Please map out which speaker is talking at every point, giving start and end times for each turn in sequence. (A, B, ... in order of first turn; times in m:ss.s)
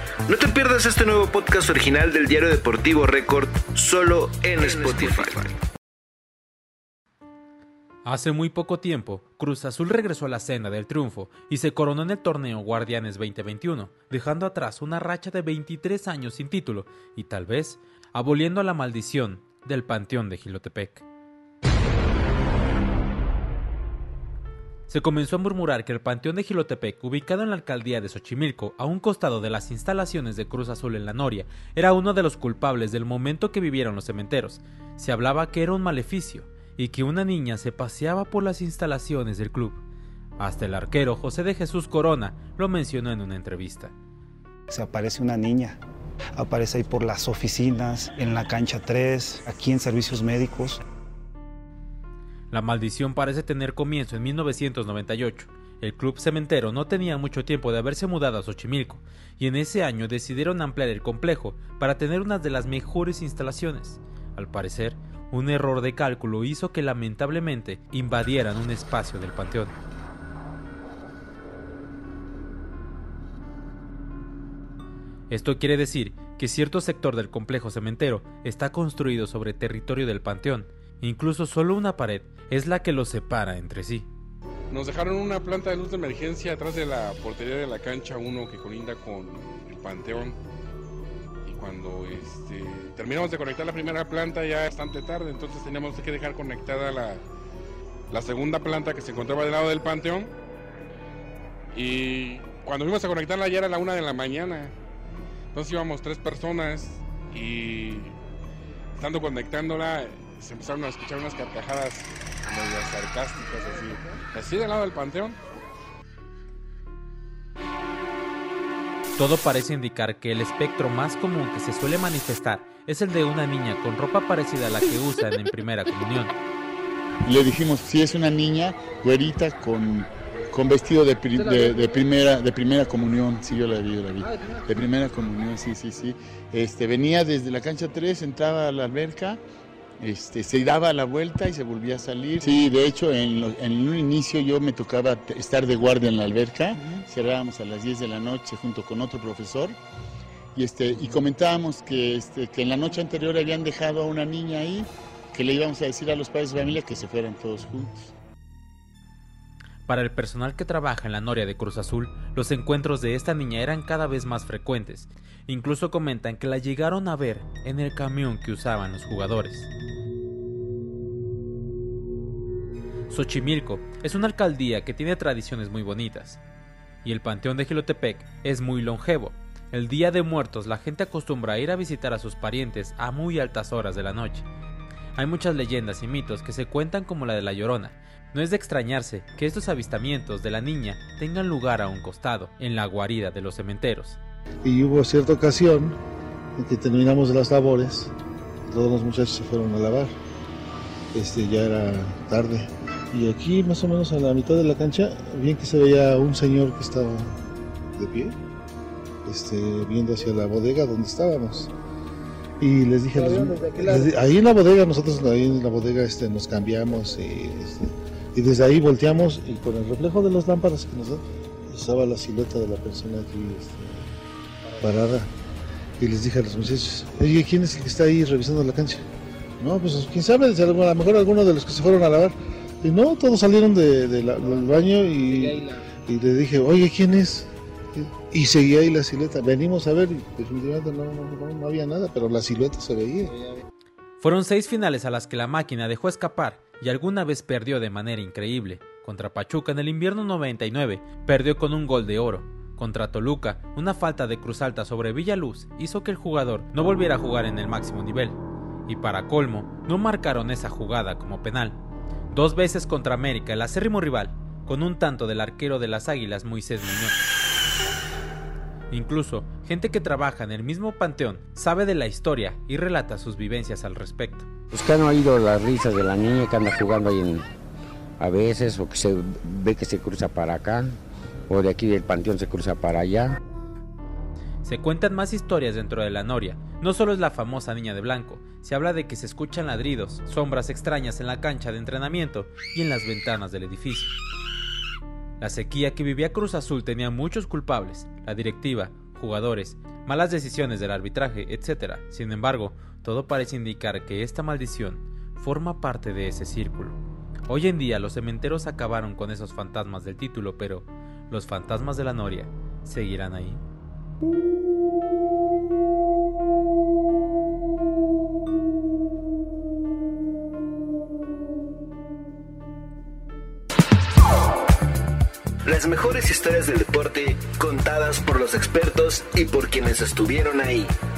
0:00.3-0:05.5 A
0:08.0-0:21.0 B
0:24.9-0:39.8 B
0:40.4-0:43.9 B
0:44.7-0:45.8 C
0:46.3-0:50.8 C
0:52.5-1:09.8 B
1:15.3-1:24.1 B
1:24.7-1:30.4 D
1:31.4-1:37.2 D
1:38.1-1:40.3 D
1:41.7-1:44.8 D
1:45.5-1:48.2 D
1:49.0-1:55.4 D
1:59.2-2:06.4 B
2:07.3-2:19.4 E
2:20.0-2:29.8 E
2:30.5-2:38.1 E
2:39.9-2:49.7 B
2:53.1-2:56.4 B
2:57.0-3:04.5 B
3:05.2-3:14.2 B
3:14.6-3:16.0 F
3:16.6-3:18.1 F
3:18.7-3:20.1 F
3:21.1-3:27.4 F
3:27.9-3:28.4 F
3:29.2-3:31.7 F
3:32.6-3:44.1 F
3:44.8-3:45.3 F
3:46.0-3:49.0 F
3:49.6-4:03.4 F
4:04.2-4:21.8 B
4:22.3-4:27.2 B
4:28.9-4:34.5 B
4:34.7-4:37.4 G
4:38.2-4:41.0 G
4:41.5-4:43.4 G
4:44.6-4:54.1 B
4:55.4-5:13.6 B
5:25.6-5:30.9 A